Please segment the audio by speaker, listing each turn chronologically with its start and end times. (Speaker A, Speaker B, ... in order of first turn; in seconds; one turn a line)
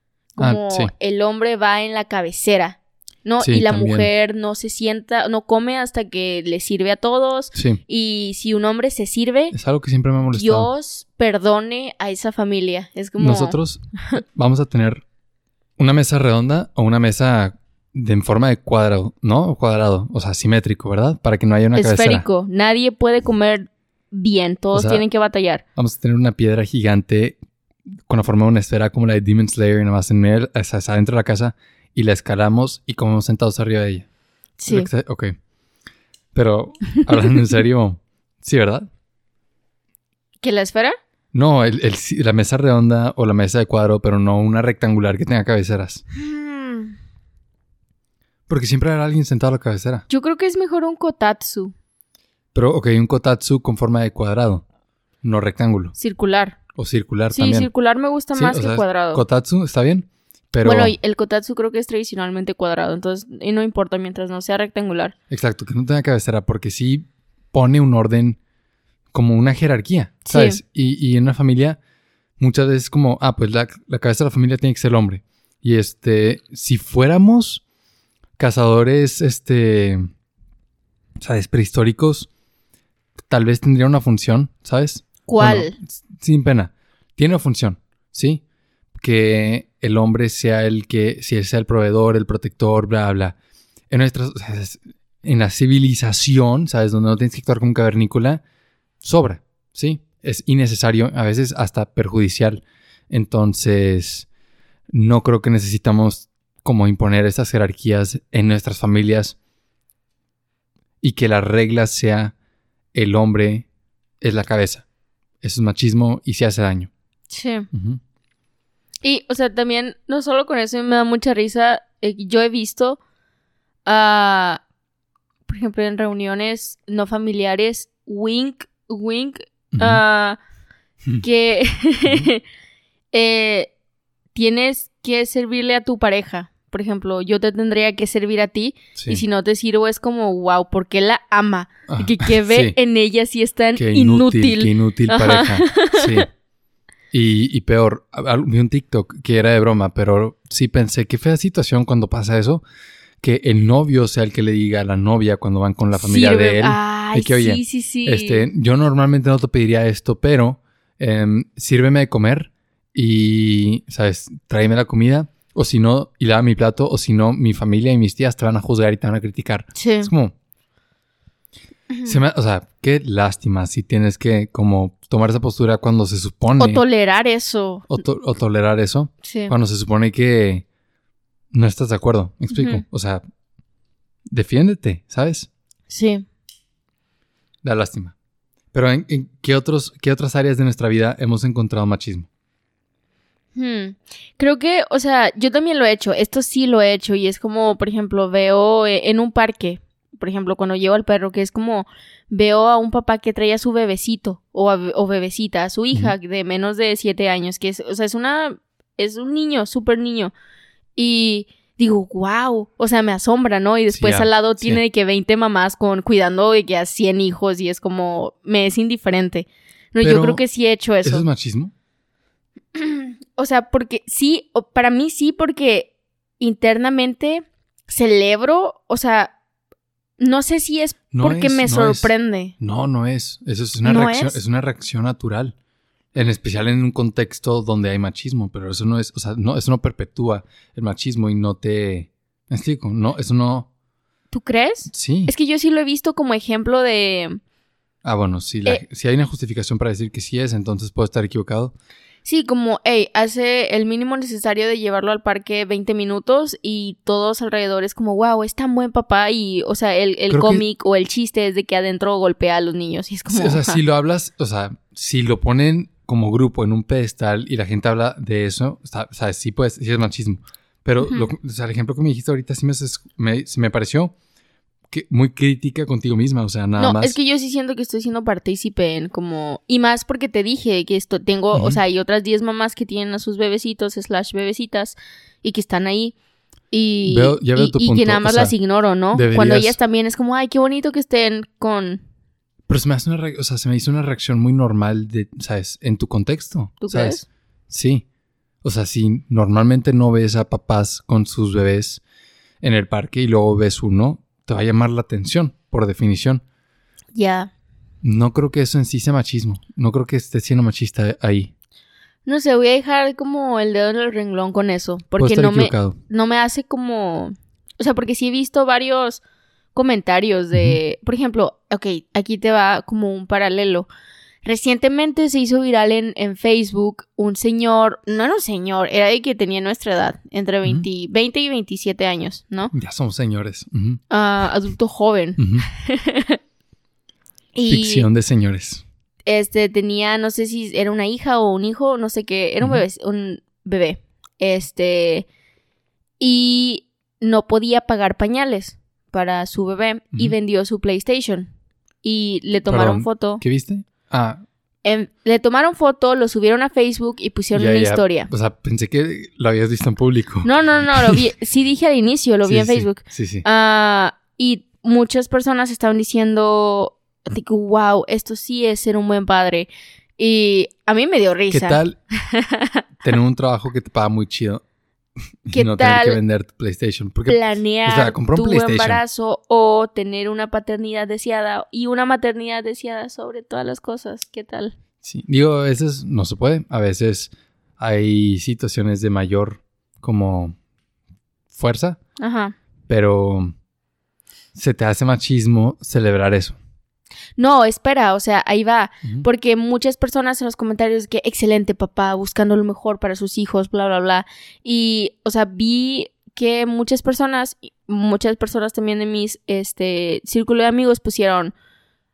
Speaker A: 0.3-9.5
Speaker B: 0.4-0.9
Speaker B: 3.4-4.1
Speaker B: 7.5-7.8
Speaker B: 9.5-10.7
Speaker A: 10.3-14.2
Speaker B: 13.2-15.0
Speaker B: 15.8-22.3
Speaker A: 21.7-25.6
Speaker B: 24.7-25.0
Speaker B: 25.8-27.4
Speaker B: 28.1-34.0
Speaker A: 34.6-34.9
Speaker B: 34.7-35.3
Speaker B: 36.3-38.9
Speaker A: 40.4-41.0
Speaker B: 41.3-46.0
Speaker A: 46.1-47.0
Speaker B: 48.5-50.0
Speaker A: 50.1-51.7
Speaker B: 52.5-54.6
Speaker B: 55.2-55.9
Speaker A: 56.0-56.6
Speaker B: 56.7-57.7
Speaker A: 57.3-59.2
Speaker B: 58.3-60.9
Speaker A: 60.6-65.1
Speaker B: 65.3-68.4
Speaker B: 69.1-71.8
Speaker A: 70.3-70.6
Speaker B: 72.4-77.6
Speaker B: 78.4-80.1
Speaker B: 81.2-82.3
Speaker B: 83.3-88.4
Speaker A: 85.3-85.8
Speaker B: 89.0-93.3
Speaker B: 93.9-98.4
Speaker B: 99.0-104.3
Speaker B: 104.9-109.3
Speaker B: 111.0-112.3
Speaker B: 112.9-113.7
Speaker B: 114.2-114.8
Speaker B: 115.4-116.9
Speaker A: 117.3-117.7
Speaker B: 117.7-118.0
Speaker A: 119.0-123.0
Speaker A: 123.8-124.6
Speaker A: 125.5-130.4
Speaker B: 129.7-130.0
Speaker A: 131.2-132.4
Speaker A: 133.1-133.7
Speaker A: 134.3-146.2
Speaker B: 138.9-139.2
Speaker B: 141.9-142.8
Speaker B: 143.8-146.3
Speaker B: 147.1-152.6
Speaker B: 153.2-170.3
Speaker A: 155.9-158.5
Speaker A: 169.7-170.1
Speaker A: 171.9-172.2
Speaker B: 172.0-176.8
Speaker A: 176.6-177.9
Speaker B: 177.9-180.6
Speaker A: 179.2-179.5
Speaker B: 181.5-183.2
Speaker A: 182.5-182.8
Speaker B: 184.3-185.5
Speaker A: 185.9-186.2
Speaker B: 187.6-188.1
Speaker B: 188.7-192.3
Speaker A: 193.5-210.3
Speaker A: 210.9-221.2
Speaker B: 213.9-214.8
Speaker B: 220.0-220.4
Speaker B: 221.0-221.7
Speaker A: 222.7-229.3
Speaker A: 230.2-232.5
Speaker B: 231.1-235.5
Speaker A: 233.8-234.4
Speaker B: 236.1-243.7
Speaker A: 244.3-247.4
Speaker B: 244.9-245.3
Speaker B: 248.0-251.7
Speaker A: 252.2-263.8
Speaker B: 260.3-260.6
Speaker B: 263.3-274.1
Speaker A: 271.0-271.3
Speaker B: 274.9-277.1
Speaker A: 276.8-286.1
Speaker B: 281.5-281.8
Speaker A: 286.7-292.0
Speaker B: 287.1-288.6
Speaker B: 289.1-289.8
Speaker B: 292.7-298.0
Speaker A: 296.8-297.2
Speaker B: 298.6-302.0
Speaker B: 302.6-306.4
Speaker A: 307.1-307.5
Speaker B: 308.0-311.5
Speaker A: 312.2-319.2
Speaker B: 315.2-316.0
Speaker A: 319.7-323.9
Speaker B: 320.5-320.8
Speaker A: 324.4-332.7
Speaker B: 332.7-334.0
Speaker A: 334.1-336.4
Speaker B: 335.4-335.6
Speaker A: 337.5-338.1
Speaker B: 337.7-338.8
Speaker A: 339.3-345.3
Speaker A: 346.2-351.5
Speaker A: 352.0-353.4
Speaker B: 352.6-354.4
Speaker A: 354.8-358.3
Speaker B: 357.5-361.2
Speaker A: 360.4-372.8
Speaker B: 362.4-363.4
Speaker B: 371.5-372.0
Speaker B: 373.0-374.6
Speaker B: 375.5-379.0
Speaker A: 375.5-376.2
Speaker A: 377.2-384.7
Speaker B: 385.0-390.6
Speaker B: 391.5-392.0
Speaker A: 392.2-392.5
Speaker B: 392.9-393.5
Speaker B: 394.5-396.6
Speaker A: 397.4-411.5